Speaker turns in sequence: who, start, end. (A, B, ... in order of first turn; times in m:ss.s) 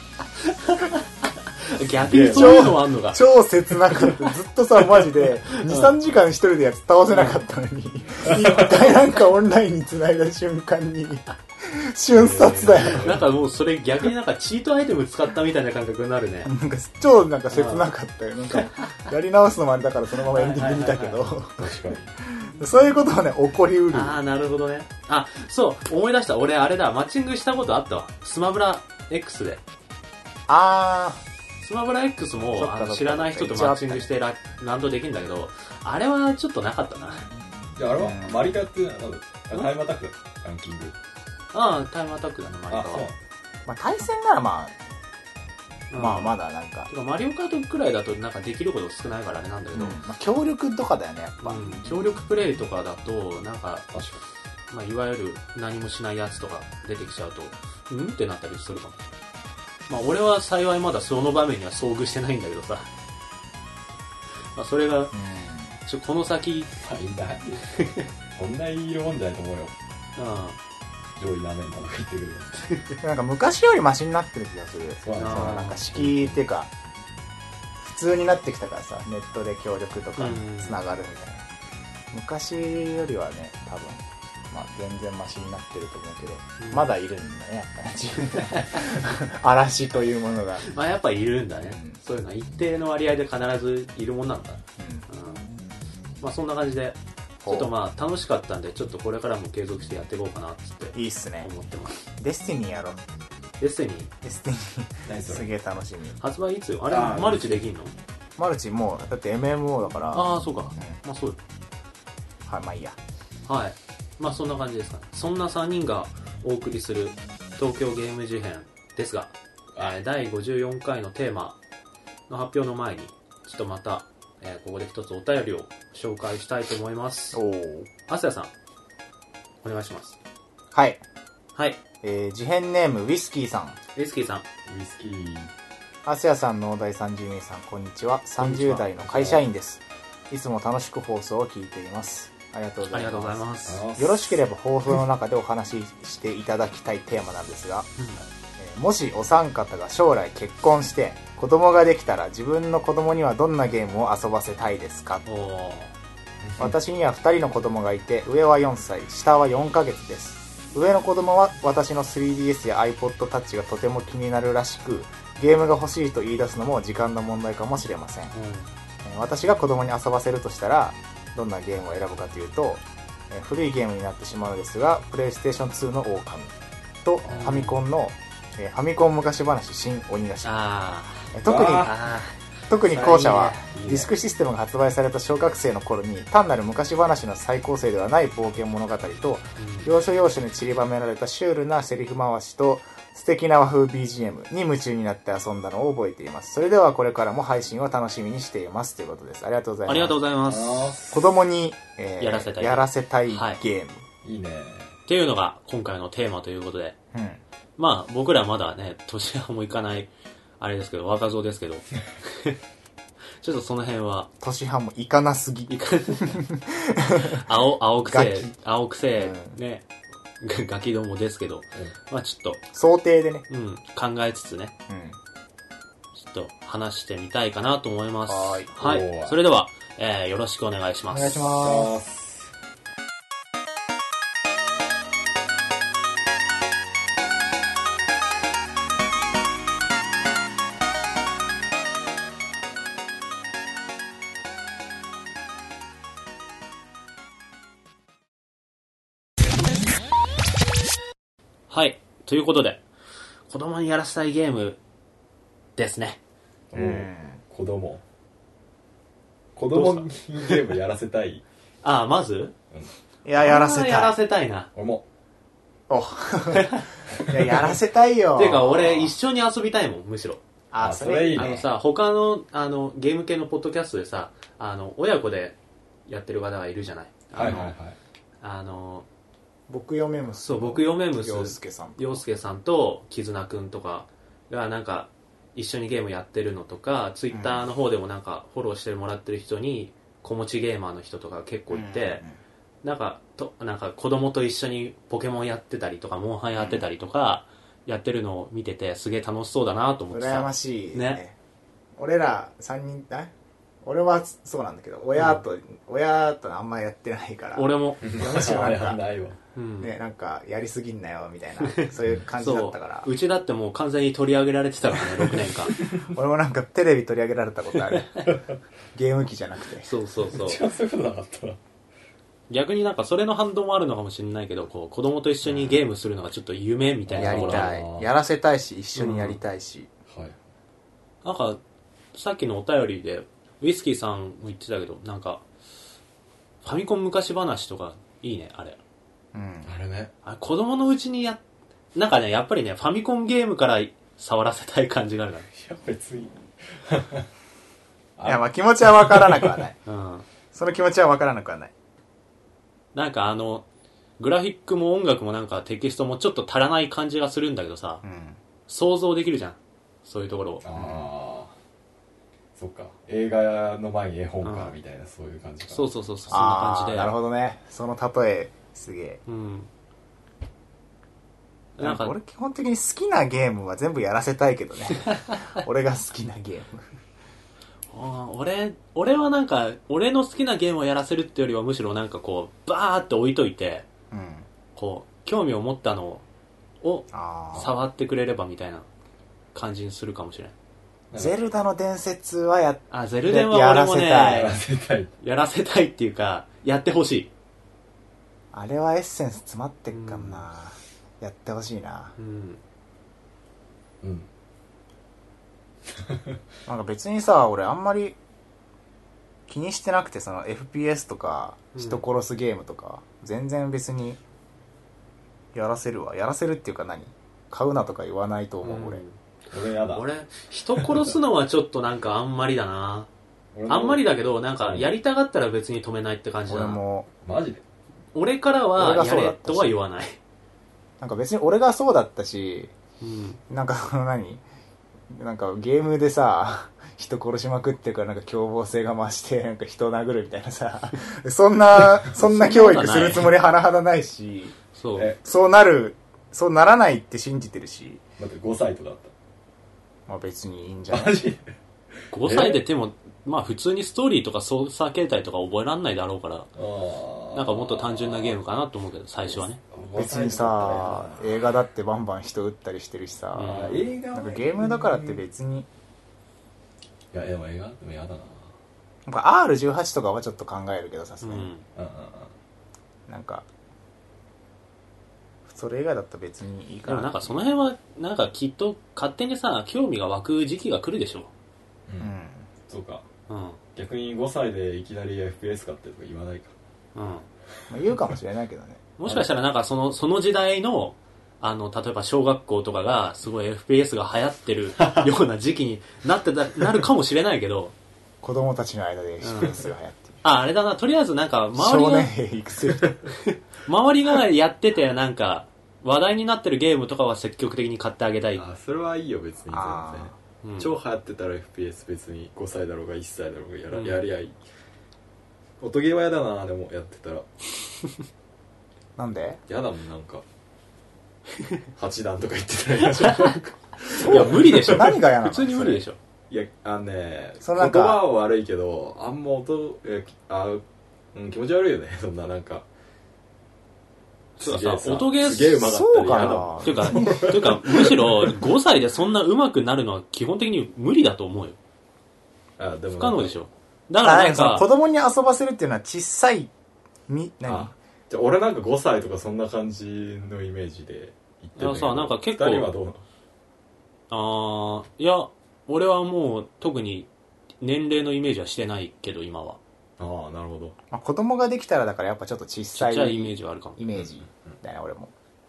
0:00.4-0:03.2 A
0:02.0-0:02.8 B
0:02.3-0:13.2 C
0:04.0-0:04.3 A
0:05.5-0:06.0 A
0:07.1-0:07.4 A
0:08.3-0:08.9 B
0:12.1-0:13.2 B
0:12.8-0:16.5 A
0:16.4-0:21.7 C
0:17.5-0:17.9 A
0:20.3-0:21.4 A
0:21.6-0:22.1 B
0:22.2-0:24.2 C
0:23.9-0:29.6 A
0:30.5-0:31.2 C
0:31.6-0:37.3 A
0:32.6-0:34.1 C
0:37.8-0:41.0 B
0:38.0-0:38.5 C
0:41.5-0:43.1 A
0:42.7-0:43.2 B
0:43.7-0:44.8 C
0:45.9-0:46.4 A
0:45.9-0:46.9 C
0:46.9-0:50.0 A
0:49.7-0:51.9 C
0:51.4-0:53.9 A
0:53.9-0:54.2 B
0:54.7-0:59.0 A
0:59.9-1:02.9 A
1:04.6-1:05.2 A
1:05.1-1:05.8 C
1:05.9-1:06.7 A
1:06.8-1:07.6 B
1:07.6-1:08.1 A
1:08.3-1:09.7 B
1:10.2-1:10.6 A
1:11.2-1:12.7 B
1:13.0-1:16.7 C
1:15.0-1:16.4 B
1:15.2-1:15.8 A
1:17.8-1:21.4 C
1:20.2-1:20.8 A
1:22.1-1:30.7 C
1:26.6-1:26.9 A
1:30.6-1:35.5 A
1:31.6-1:32.0 C
1:34.8-1:35.1 C
1:36.2-1:42.0 A
1:37.4-1:37.7 C
1:40.9-1:41.5 C
1:42.0-1:43.0 C
1:43.6-1:44.1 A
1:44.2-1:46.2 C
1:45.1-1:45.5 B
1:46.2-1:47.9 A
1:46.9-1:47.6 B
1:48.4-1:51.0 C
1:50.1-1:51.4 A
1:52.5-1:53.0 C
1:53.5-2:01.6 A
2:02.3-2:07.4 A
2:07.3-2:07.9 C
2:08.1-2:08.5 A
2:09.6-2:10.2 A
2:10.7-2:11.0 C
2:12.0-2:13.8 C
2:14.0-2:14.4 A
2:14.7-2:15.5 B
2:16.0-2:27.9 C
2:18.4-2:18.8 A
2:18.8-2:19.4 B
2:22.9-2:23.8 A
2:23.7-2:24.4 B
2:28.0-2:28.2 A
2:28.6-2:35.2 C
2:35.3-2:35.9 A
2:36.4-2:36.7 B
2:36.6-2:48.3 C
2:48.3-2:48.7 A
2:49.0-3:00.6 C
2:57.3-2:57.6 B
2:57.3-2:57.8 A
3:00.4-3:04.1 A
3:01.3-3:01.9 C
3:01.4-3:01.9 B
3:02.7-3:20.2 C
3:03.2-3:04.0 B
3:09.6-3:09.9 A
3:19.9-3:20.9 A
3:20.5-3:21.3 B
3:21.1-3:24.0 C
3:22.2-3:23.6 A
3:24.2-3:25.0 B
3:25.1-3:27.0 A
3:27.1-3:27.4 C
3:27.8-3:32.6 A
3:33.4-3:34.3 A
3:34.4-3:37.5 C
3:35.7-3:36.4 A
3:37.3-3:39.9 A
3:38.0-3:38.5 C
3:39.2-3:39.6 C
3:40.4-3:42.6 A
3:42.7-3:43.4 C
3:43.5-3:44.7 A
3:44.9-3:45.2 C
3:46.2-3:51.5 A
3:48.3-3:48.7 C
3:48.8-3:49.4 B
3:51.1-3:51.9 C
3:51.6-3:52.5 B
4:11.7-4:12.8 A
4:13.5-4:14.8 A
4:15.8-4:16.2 A
4:16.7-4:18.0 B
4:16.7-4:17.4 C
4:19.6-4:21.4 B
4:19.7-4:20.7 A
4:21.8-4:22.5 A
4:23.2-4:24.2 C
4:23.4-4:24.7 A
4:24.8-4:25.0 B
4:25.9-4:29.1 C
4:26.5-4:26.9 A
4:27.1-4:27.7 B
4:28.4-4:30.4 A
4:30.7-4:31.7 C
4:30.8-4:31.6 B
4:31.3-4:35.6 A
4:36.1-4:37.8 A
4:37.3-4:38.0 B
4:38.4-4:39.1 A
4:39.7-4:42.2 C
4:40.4-4:52.2 A
4:47.3-4:47.7 C
4:51.7-4:52.4 C
4:52.8-5:01.2 A
4:56.5-4:56.9 C
5:00.1-5:01.4 C
5:02.0-5:03.3 C
5:03.8-5:09.0 C
5:05.2-5:05.4 A
5:07.6-5:08.0 A
5:08.0-5:09.4 B
5:09.6-5:09.9 A
5:09.8-5:13.1 C
5:11.6-5:15.8 A
5:15.3-5:16.1 B
5:16.0-5:18.3 C
5:18.9-5:19.9 C
5:19.8-5:20.6 A
5:20.3-5:21.6 B
5:22.5-5:27.7 A
5:27.1-5:28.1 B
5:27.2-5:29.9 C
5:29.0-5:29.4 A
5:30.1-5:30.4 B
5:31.2-5:31.6 A
5:32.1-5:35.4 A
5:36.6-5:38.8 A
5:39.3-5:39.7 C
5:39.7-5:40.1 B
5:40.2-5:41.4 A
5:42.0-5:45.5 A
5:45.5-5:47.3 B
5:48.2-5:49.7 B
5:48.2-5:49.8 C
5:49.9-5:50.2 A
5:50.5-5:51.7 C
5:52.9-5:53.6 A
5:54.2-5:58.0 A
5:58.0-5:58.4 C
5:58.7-6:00.6 A
6:00.6-6:01.6 B
6:00.8-6:01.1 C
6:02.6-6:05.9 B
6:04.4-6:04.8 A
6:05.7-6:07.1 A
6:06.3-6:09.2 C
6:09.3-6:09.7 A
6:11.8-6:12.2 A
6:11.8-6:16.9 C
6:15.0-6:15.5 A
6:17.9-6:23.8 A
6:24.1-6:24.5 C
6:24.8-6:26.2 A
6:26.8-6:28.9 A
6:27.1-6:27.7 C
6:29.5-6:30.5 A
6:31.1-6:31.4 B
6:31.2-6:34.5 C
6:32.9-6:34.6 A
6:34.2-6:35.1 B
6:35.2-6:37.3 A
6:38.5-6:42.2 C
6:39.9-6:40.5 A
6:42.2-6:42.6 A
6:44.0-6:44.3 B
6:46.1-6:46.4 B
6:46.7-6:48.2 C
6:49.5-6:54.2 C
6:51.7-6:52.0 A
6:55.5-6:59.0 C
6:58.6-6:59.2 A
6:59.5-7:00.0 B
6:59.9-7:03.1 A
7:00.8-7:01.1 B
7:03.5-7:04.0 B
7:03.7-7:06.8 A
7:04.6-7:04.9 B
7:06.5-7:07.1 C
7:07.2-7:07.6 B
7:08.2-7:10.2 A
7:08.8-7:09.8 C
7:11.0-7:12.7 C
7:13.0-7:13.4 A
7:13.5-7:14.4 C
7:15.1-7:24.6 C
7:22.1-7:23.3 A
7:24.8-7:25.1 A
7:25.2-7:28.0 C
7:28.2-7:29.1 B
7:30.1-7:31.2 C
7:30.9-7:31.4 B
7:32.1-7:36.5 A
7:32.2-7:32.6 B
7:36.6-7:38.4 B
7:37.3-7:39.6 A
7:39.6-7:41.5 B
7:40.0-7:43.6 C
7:43.4-7:43.9 A
7:43.4-7:45.2 B
7:44.1-7:45.7 C
7:47.1-7:48.5 B
7:49.1-7:51.5 C
7:51.2-7:51.7 A
7:51.8-7:52.3 B
7:53.1-7:53.5 C
7:55.5-7:57.3 C
7:56.9-8:01.3 A
8:02.0-8:02.5 C
8:02.7-8:03.0 B
8:03.3-8:03.6 A
8:03.8-8:06.5 B
8:07.0-8:07.3 A
8:07.7-8:08.8 C
8:09.0-8:17.7 A
8:14.8-8:15.1 B
8:18.2-8:20.2 C
8:19.2-8:19.6 A
8:20.2-8:22.1 A
8:21.6-8:23.0 C
8:23.1-8:28.4 A
8:28.4-8:34.4 B
8:29.5-8:30.2 C
8:30.4-8:30.7 A
8:33.7-8:34.0 A
8:35.6-8:37.3 B
8:39.0-8:39.4 C
8:39.5-8:40.2 B
8:41.8-8:44.9 B
8:42.9-8:46.0 A
8:44.0-8:45.8 C
8:46.3-8:50.6 B
8:47.4-8:48.0 C
8:51.1-8:52.7 B
8:54.4-8:55.7 A
8:54.4-8:58.4 B
8:55.6-8:57.5 C
8:56.6-9:01.6 A
9:02.6-9:03.4 B
9:03.0-9:04.7 A
9:04.0-9:06.5 C
9:07.1-9:07.7 C
9:07.5-9:13.0 B
9:11.6-9:12.7 A
9:14.1-9:17.1 A
9:17.6-9:19.6 A
9:20.0-9:20.8 B
9:20.9-9:25.1 C
9:22.7-9:23.8 A
9:23.9-9:24.6 B